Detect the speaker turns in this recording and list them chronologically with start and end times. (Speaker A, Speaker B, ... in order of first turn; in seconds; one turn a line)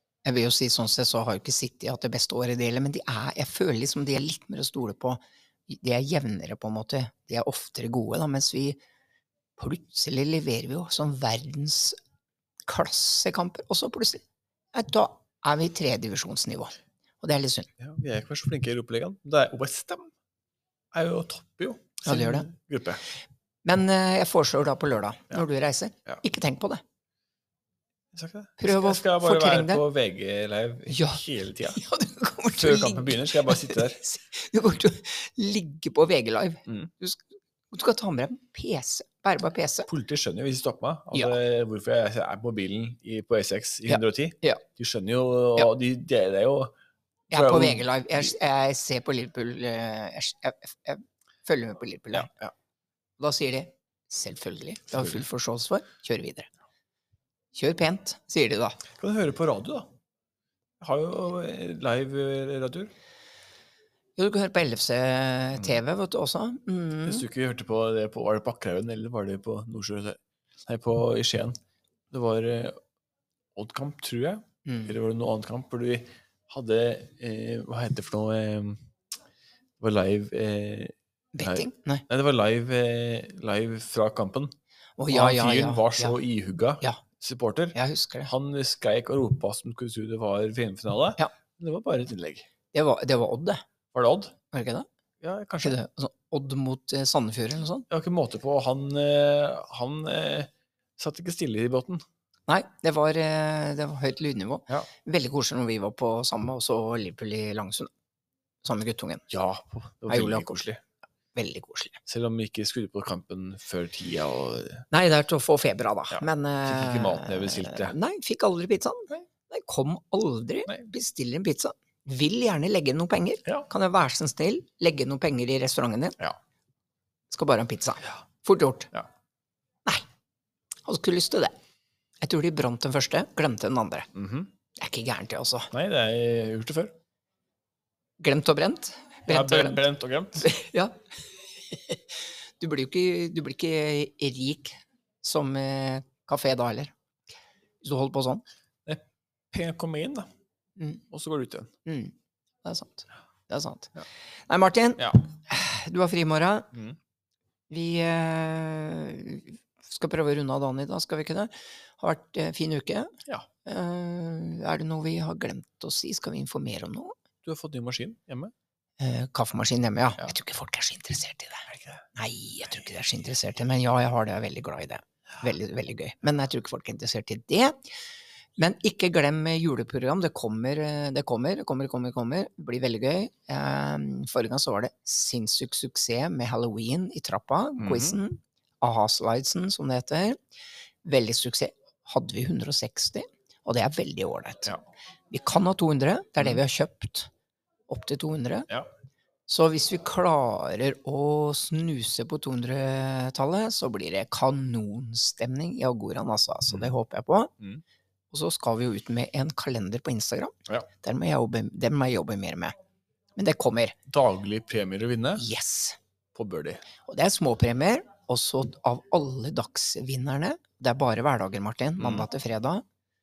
Speaker A: 0.2-8.8
Speaker A: 9.6-12.0
Speaker A: 12.7-14.2
Speaker A: 14.7-17.7
Speaker B: 17.8-20.1
Speaker B: 20.9-23.0
Speaker A: 22.1-22.5
Speaker A: 23.6-26.8
Speaker B: 28.1-31.8
Speaker A: 28.6-29.8
Speaker A: 30.9-39.9
Speaker B: 32.6-34.0
Speaker B: 39.9-46.7
Speaker A: 41.1-41.4
Speaker A: 43.9-44.6
Speaker B: 47.3-48.3
Speaker A: 47.3-52.3
Speaker B: 52.1-52.5
Speaker A: 53.2-56.5
Speaker B: 54.9-55.2
Speaker A: 57.5-58.8
Speaker B: 59.0-59.9
Speaker B: 60.8-62.9
Speaker A: 64.2-67.3
Speaker B: 67.1-71.6
Speaker B: 72.1-72.8
Speaker B: 73.5-78.8
Speaker A: 74.7-75.0
Speaker B: 79.8-84.5
Speaker A: 81.3-82.0
Speaker A: 85.0-86.2
Speaker B: 85.1-92.5
Speaker A: 87.8-88.3
Speaker A: 92.7-93.6
Speaker B: 93.9-94.3
Speaker A: 94.5-94.9
Speaker B: 95.2-95.8
Speaker A: 95.6-97.9
Speaker B: 97.9-102.0
Speaker A: 102.5-107.9
Speaker A: 108.6-109.3
Speaker B: 109.3-110.8
Speaker A: 110.1-110.6
Speaker A: 111.3-112.0
Speaker B: 112.1-114.8
Speaker A: 114.9-126.2
Speaker B: 116.1-118.0
Speaker A: 127.3-128.9
Speaker A: 130.8-131.6
Speaker A: 132.2-134.1
Speaker B: 134.2-134.5
Speaker A: 134.8-135.7
Speaker B: 135.7-136.9
Speaker A: 138.2-139.8
Speaker B: 139.3-140.5
Speaker A: 140.4-146.9
Speaker A: 147.8-148.4
Speaker B: 149.5-150.3
Speaker A: 150.8-151.0
Speaker B: 151.1-151.7
Speaker A: 151.9-153.9
Speaker A: 154.5-156.7
Speaker A: 157.7-163.1
Speaker A: 163.7-167.1
Speaker B: 167.4-168.5
Speaker A: 169.0-177.9
Speaker B: 171.7-172.1
Speaker A: 178.6-190.4
Speaker B: 187.8-188.2
Speaker A: 191.0-194.8
Speaker A: 195.3-197.3
Speaker A: 197.9-198.7
Speaker A: 199.5-207.5
Speaker A: 208.3-212.8
Speaker A: 213.4-214.0
Speaker B: 214.1-215.5
Speaker A: 215.4-216.0
Speaker B: 216.3-216.8
Speaker A: 217.1-222.8
Speaker B: 222.0-222.3